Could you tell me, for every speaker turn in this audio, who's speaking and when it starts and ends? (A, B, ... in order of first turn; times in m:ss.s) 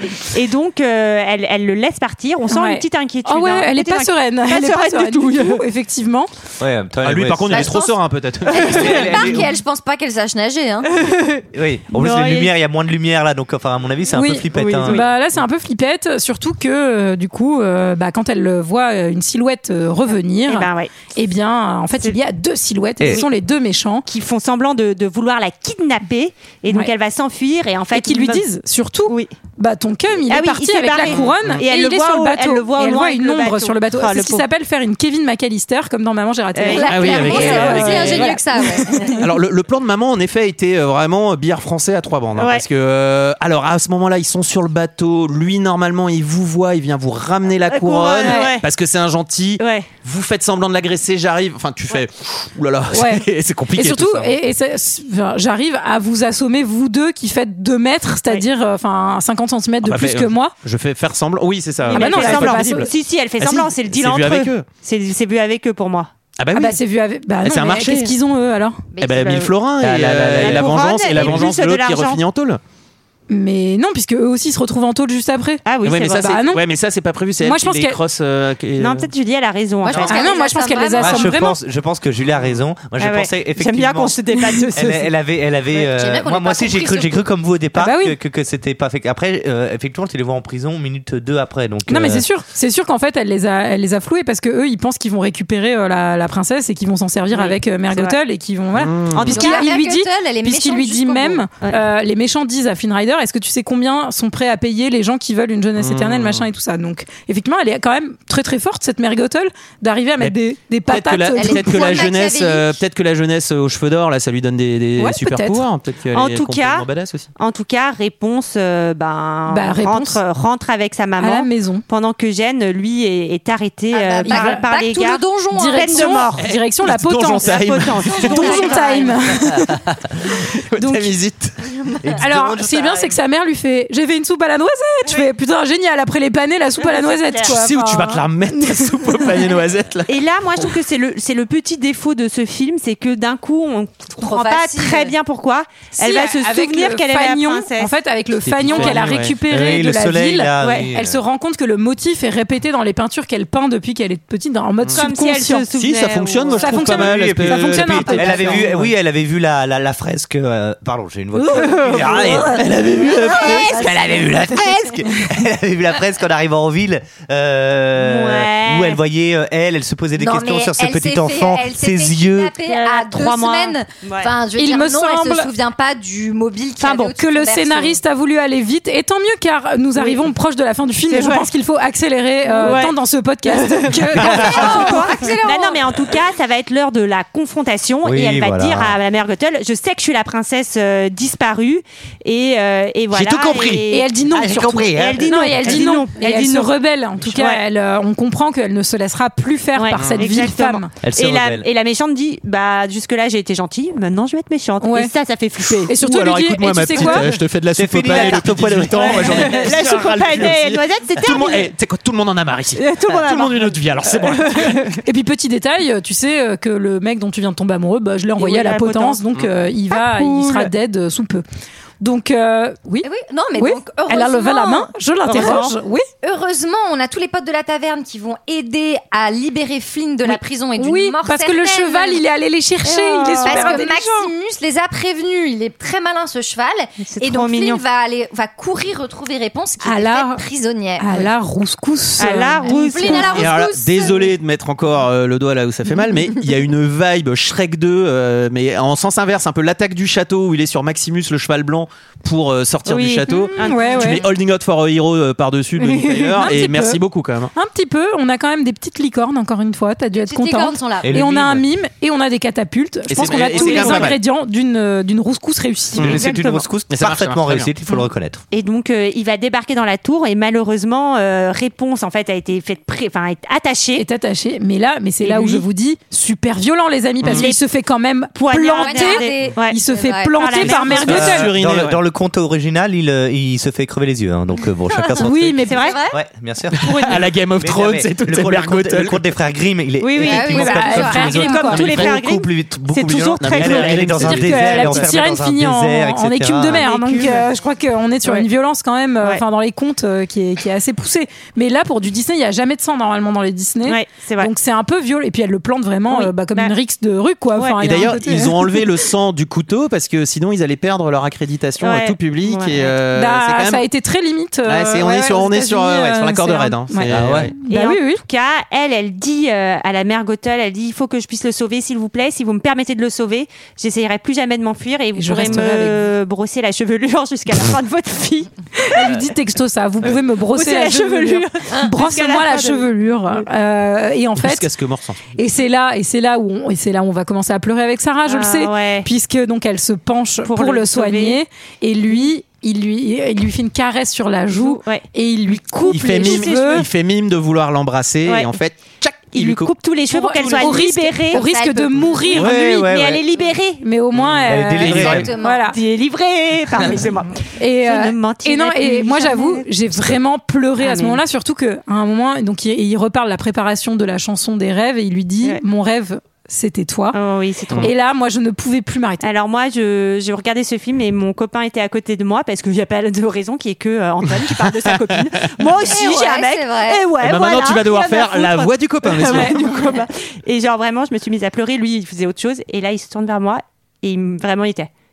0:00.2-0:05.6 A
0:02.5-0:06.3 B
0:06.6-0:07.8 C
0:07.0-0:09.3 D
0:07.5-0:10.9 E
0:08.5-0:09.6 C
0:08.6-0:08.9 A
0:11.0-0:11.4 A
0:11.5-0:15.0 C
0:11.9-0:12.5 A
0:14.1-0:24.0 B
0:14.5-0:15.1 A
0:20.5-0:21.0 A
0:24.1-0:28.4 A
0:27.9-0:39.3 B
0:30.3-0:34.5 A
0:31.1-0:31.6 D
0:36.6-0:38.2 A
0:36.7-0:39.2 E
0:36.9-0:38.4 D
0:39.2-0:54.4 D
0:42.4-0:42.6 A
0:47.7-0:48.6 A
0:48.2-0:48.5 B
0:49.6-0:49.9 A
0:52.9-1:00.5 B
0:59.8-1:04.7 D
1:01.9-1:06.1 A
1:01.9-1:02.9 B
1:06.4-1:06.8 D
1:06.5-1:08.8 B
1:07.4-1:08.1 D
1:08.9-1:09.5 E
1:09.0-1:12.6 D
1:09.2-1:09.5 A
1:09.8-1:11.5 C
1:10.4-1:12.2 A
1:13.3-1:16.6 B
1:15.7-1:16.4 A
1:15.8-1:19.1 D
1:17.4-1:18.0 B
1:18.8-1:20.4 A
1:19.8-1:21.4 E
1:20.1-1:21.6 B
1:21.0-1:24.2 C
1:23.0-1:25.1 A
1:24.7-1:32.2 C
1:25.7-1:27.2 E
1:27.8-1:28.2 B
1:31.9-1:52.1 B
1:37.3-1:38.2 A
1:38.8-1:39.4 D
1:39.1-1:39.7 A
1:39.3-1:41.4 E
1:45.8-1:46.5 D
1:50.9-1:57.3 D
1:51.4-1:52.8 E
1:55.0-1:55.7 B
1:56.1-2:06.4 A
1:59.5-2:00.2 B
2:01.2-2:01.8 B
2:03.9-2:06.1 E
2:04.2-2:04.7 B
2:05.5-2:07.6 B
2:06.4-2:08.6 D
2:07.4-2:09.1 A
2:08.1-2:09.2 E
2:08.2-2:09.9 B
2:10.4-2:11.6 D
2:10.8-2:11.2 B
2:12.0-2:13.2 C
2:12.2-2:19.5 B
2:16.8-2:17.5 A
2:17.4-2:20.7 D
2:20.1-2:27.9 A
2:24.2-2:25.1 E
2:26.0-2:35.6 B
2:28.4-2:29.4 D
2:28.7-2:29.0 A
2:29.5-2:31.2 C
2:30.6-2:30.9 A
2:35.0-2:36.8 A
2:35.7-2:38.9 D
2:36.6-2:38.6 B
2:36.8-2:52.5 C
2:41.4-2:42.4 B
2:42.0-2:44.0 D
2:43.0-2:44.2 E
2:48.0-2:49.0 A
2:50.2-2:58.0 E
2:52.6-2:54.3 A
2:54.6-2:55.5 B
2:56.8-2:57.1 A
2:57.2-3:05.1 B
3:01.1-3:01.5 A
3:02.5-3:02.8 E
3:02.6-3:02.9 A
3:03.5-3:14.1 A
3:04.1-3:05.9 E
3:08.0-3:09.0 C
3:13.1-3:13.8 D
3:13.9-3:20.9 B
3:14.3-3:15.3 C
3:14.9-3:17.6 A
3:19.8-3:25.9 A
3:20.0-3:20.3 D
3:21.0-3:21.7 C
3:24.8-3:25.1 B
3:25.8-3:34.9 D
3:25.9-3:27.3 B
3:27.7-3:29.6 C
3:29.0-3:31.7 A
3:32.8-3:35.0 A
3:35.0-3:41.4 B
3:38.4-3:39.2 A
3:39.9-3:40.7 A
3:42.0-3:46.0 B
3:43.0-3:45.6 E
3:45.3-3:45.7 A
3:46.2-3:52.2 E
3:50.2-3:54.3 B
3:52.9-3:53.8 A
3:53.4-4:01.3 E
3:57.1-3:57.8 A
3:59.8-4:00.4 B
4:01.0-4:03.5 B
4:02.2-4:03.5 A
4:02.6-4:04.3 E
4:03.3-4:17.5 D
4:12.9-4:14.2 A
4:13.5-4:14.2 B
4:15.8-4:17.0 B
4:17.5-4:26.2 B
4:20.2-4:21.1 E
4:21.0-4:21.6 C
4:23.1-4:24.2 D
4:23.5-4:24.2 A
4:26.0-4:26.3 D
4:26.0-4:28.4 C
4:26.2-4:26.7 A
4:26.9-4:27.7 D
4:28.5-4:34.0 A
4:34.0-4:41.5 B
4:35.2-4:35.6 A
4:37.3-4:37.6 A
4:38.4-4:39.8 A
4:38.8-4:40.7 E
4:40.3-4:41.4 A
4:40.8-4:42.0 D
4:41.1-4:56.8 C
4:44.9-4:45.3 E
4:45.2-4:46.0 B
4:45.7-4:46.0 A
4:45.8-4:46.2 E
4:46.8-4:49.2 D
4:50.0-4:54.1 A
4:50.2-4:51.7 E
4:50.5-4:51.9 B
4:51.8-4:52.2 D
4:53.4-4:55.1 D
4:54.2-5:08.8 B
4:56.7-4:57.5 A
5:03.9-5:04.5 A
5:06.1-5:06.7 A
5:07.8-5:13.8 D
5:11.8-5:12.9 A
5:13.1-5:18.2 B
5:14.7-5:17.5 D
5:17.1-5:17.5 C
5:17.7-5:28.5 A
5:25.2-5:26.0 B
5:28.8-5:34.7 B
5:30.5-5:33.4 A
5:34.4-5:35.2 D
5:35.4-5:46.9 B
5:38.3-5:39.1 A
5:40.4-5:41.4 A
5:44.5-5:45.0 A
5:45.9-5:49.7 D
5:45.9-5:46.9 A
5:48.3-5:48.5 A
5:49.3-5:51.4 A
5:50.1-5:52.9 B
5:51.3-5:52.4 E
5:52.3-5:53.2 C
5:52.4-5:53.8 A
5:53.8-5:55.8 B
5:54.2-5:55.3 D
5:54.5-5:55.3 C
5:54.9-5:55.7 E
5:55.5-5:59.7 A
5:57.6-6:07.2 B
6:00.8-6:01.2 A
6:07.1-6:07.9 A
6:07.8-6:09.3 B
6:09.2-6:24.9 A
6:15.8-6:17.1 E
6:17.2-6:19.9 D
6:19.3-6:19.5 B